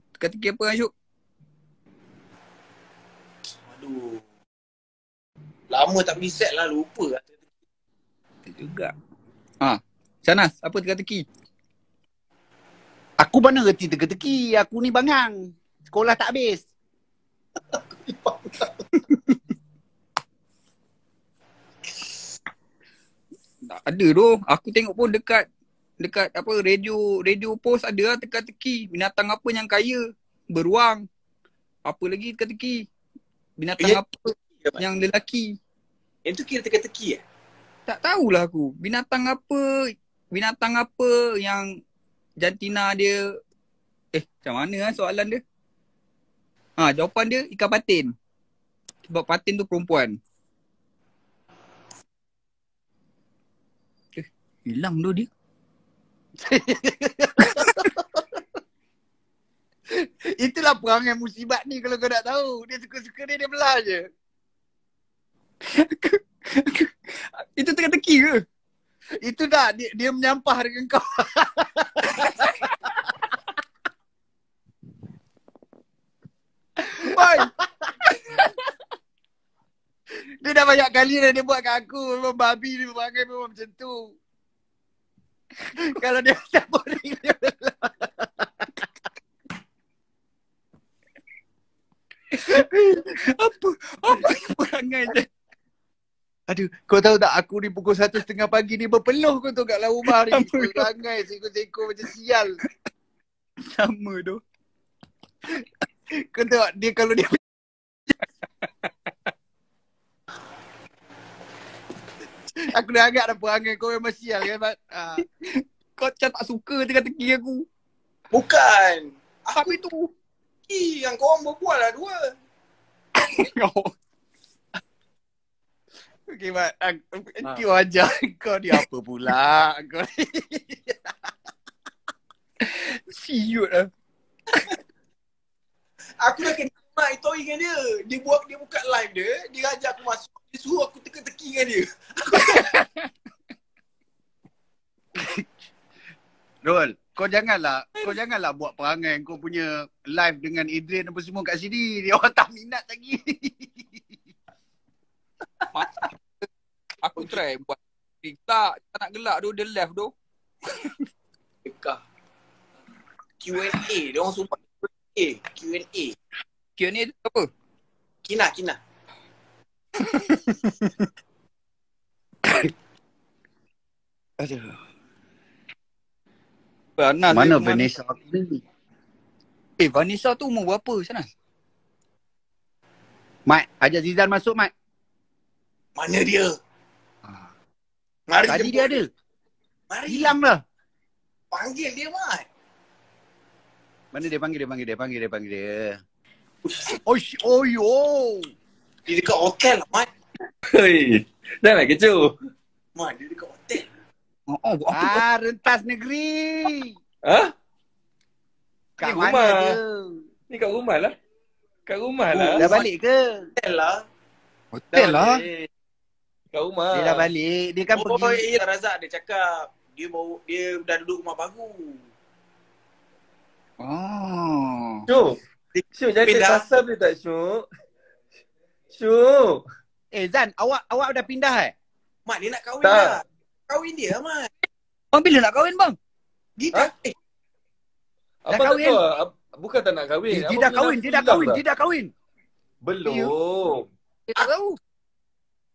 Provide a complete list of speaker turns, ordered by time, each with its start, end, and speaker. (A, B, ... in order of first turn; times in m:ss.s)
0:00.2-0:00.9 A
0:03.7-0:04.2 B
0:05.7-0:07.3 B
0:08.5-0:08.9 A
0:09.6-0:11.2 A
0:13.2-0:16.6 C
0:17.7-0:18.8 B
0:19.0-0:19.4 A
0:23.7-0:25.4 A
0:26.0-0:31.0 A
0:31.9-0:32.9 A
0:33.6-0:35.6 A
0:36.2-0:37.2 B
0:37.9-0:41.8 A
0:42.4-0:43.4 A
0:44.1-0:45.4 A
0:46.8-0:48.1 A
0:49.1-0:50.2 A
0:54.1-0:55.3 A
0:56.4-0:58.4 C
0:57.5-0:57.9 A
0:59.9-1:04.0 C
1:05.6-1:08.4 A
1:09.2-1:12.9 C
1:16.8-1:17.5 A
1:16.9-1:17.9 C
1:20.4-1:24.2 C
1:25.7-1:28.9 C
1:32.3-1:35.3 A
1:36.5-1:42.6 C
1:40.3-1:40.8 A
1:43.6-1:44.4 A
1:46.1-1:47.4 C
1:52.6-1:55.2 C
1:55.2-1:57.6 A
1:58.3-1:59.8 B
1:59.5-2:00.1 A
2:00.7-2:02.3 B
2:03.2-2:03.9 A
2:06.3-2:11.1 C
2:12.6-2:13.9 A
2:16.2-2:22.8 B
2:22.4-2:22.9 A
2:25.2-2:25.4 C
2:26.6-2:34.2 C
2:35.7-2:36.4 A
2:37.0-2:40.1 A
2:40.7-2:40.9 A
2:41.6-2:42.0 B
2:43.4-2:46.2 B
2:46.8-2:47.5 A
2:48.2-2:48.8 B
2:50.0-2:50.9 A
2:54.4-2:54.7 A
2:57.0-2:57.9 A
2:57.3-2:58.6 C
2:59.8-3:01.3 A
3:03.5-3:04.7 C
3:06.0-3:06.5 B
3:08.3-3:09.0 B
3:08.4-3:09.1 C
3:09.9-3:10.3 B
3:10.1-3:10.6 C
3:11.5-3:12.4 B
3:14.1-3:16.0 C
3:16.6-3:17.0 B
3:17.0-3:18.5 C
3:19.1-3:20.1 B
3:20.7-3:22.3 D
3:23.0-3:23.8 B
3:24.5-3:25.2 A
3:24.9-3:26.9 C
3:27.2-3:27.5 D
3:29.0-3:29.7 D
3:29.0-3:30.2 C
3:30.5-3:31.1 D
3:31.9-3:32.7 D
3:32.3-3:32.8 B
3:32.6-3:33.5 C
3:33.6-3:34.0 B
3:34.7-3:35.4 A
3:34.9-3:35.7 B
3:36.5-3:37.2 D
3:36.9-3:38.4 C
3:37.9-3:42.0 B
3:43.8-3:45.0 A
3:45.1-3:45.4 D
3:45.7-3:46.6 B
3:45.9-3:47.6 D
3:48.9-3:49.6 D
3:50.1-3:51.7 C
3:52.2-3:54.5 B
3:52.8-3:53.2 D
3:55.1-3:56.0 A
3:56.6-3:57.1 B
3:58.4-4:01.6 D
3:58.5-3:59.0 C
4:00.3-4:02.1 C
4:02.8-4:03.8 D
4:03.0-4:03.3 C
4:04.3-4:04.8 A